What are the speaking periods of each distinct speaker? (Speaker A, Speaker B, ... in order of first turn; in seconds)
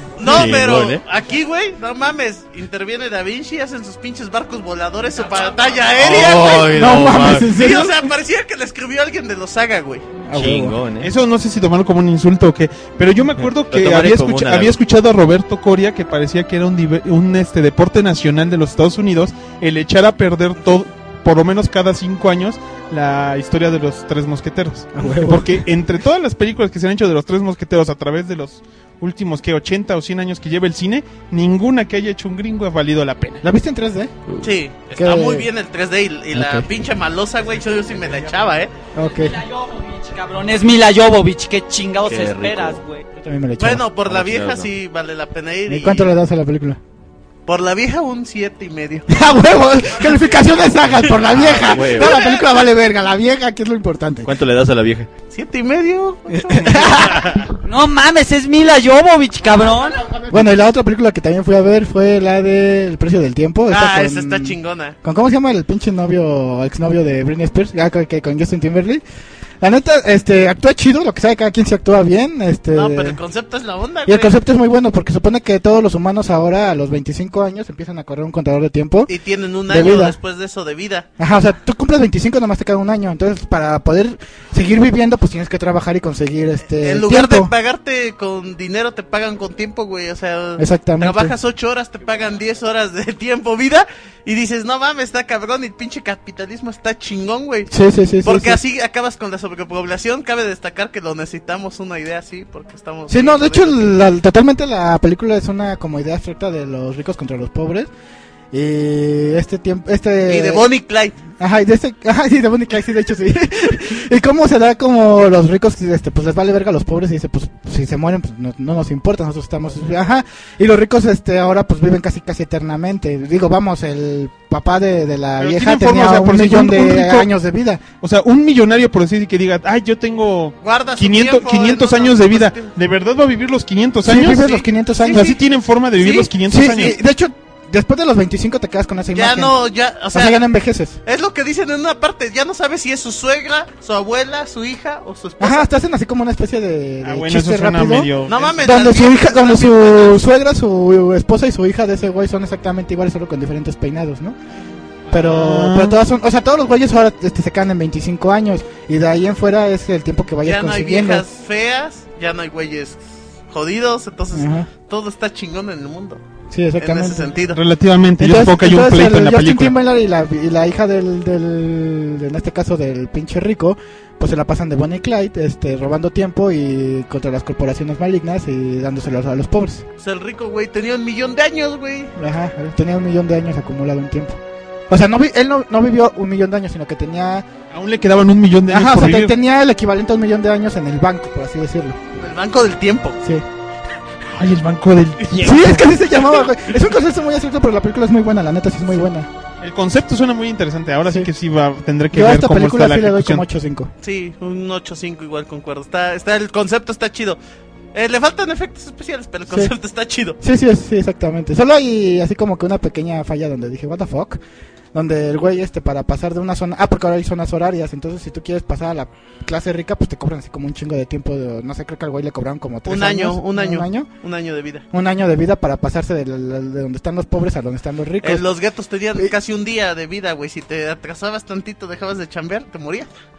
Speaker A: 0.2-6.8, 7.5-10.0, 34.4-38.7, 43.6-46.1, 47.5-49.1, 52.0-52.4, 55.3-57.4, 63.7-65.0, 72.7-74.3, 79.1-81.1, 86.8-97.7, 98.2-104.0, 110.2-111.2, 130.6-132.7, 134.2-135.4, 139.1-140.4, 141.0-145.7, 148.2-150.2, 160.4-166.2, 166.8-167.6, 180.0-182.1, 192.2-193.2, 204.0-207.4, 207.9-210.4, 222.8-224.8, 228.2-233.1
Speaker B: 0.2-1.0, 6.0-7.5, 10.3-11.1, 13.6-14.8, 42.0-42.8, 44.0-44.7, 51.3-52.3, 54.2-55.1
Speaker C: 6.7-8.1, 10.2-10.8, 24.9-25.6, 33.4-34.1, 34.9-35.5, 36.3-36.7, 38.9-39.4, 43.1-43.9, 45.7-46.8, 49.1-54.4, 56.5-57.3, 60.3-69.0, 69.6-73.2, 74.0-79.1, 79.7-80.2, 81.2-87.5, 90.6-91.4, 97.7-98.6, 103.1-107.9, 108.5-110.7, 111.4-127.8, 134.0-135.4, 136.0-139.6, 140.1-141.0, 145.4-154.4, 155.1-161.3, 164.3-164.7, 166.5-167.3, 168.2-179.8, 182.2-187.5, 188.7-192.0, 195.3-199.3, 202.1-203.9, 209.5-209.7, 210.4-214.4, 214.9-224.1, 224.9-228.4
Speaker D: 11.0-33.4, 125.4-127.3, 128.0-134.5, 135.1-137.0, 147.0-148.6, 155.1-156.0, 167.5-169.7, 187.7-189.3, 194.3-196.0, 199.6-203.4
Speaker E: 39.2-43.0, 57.6-60.0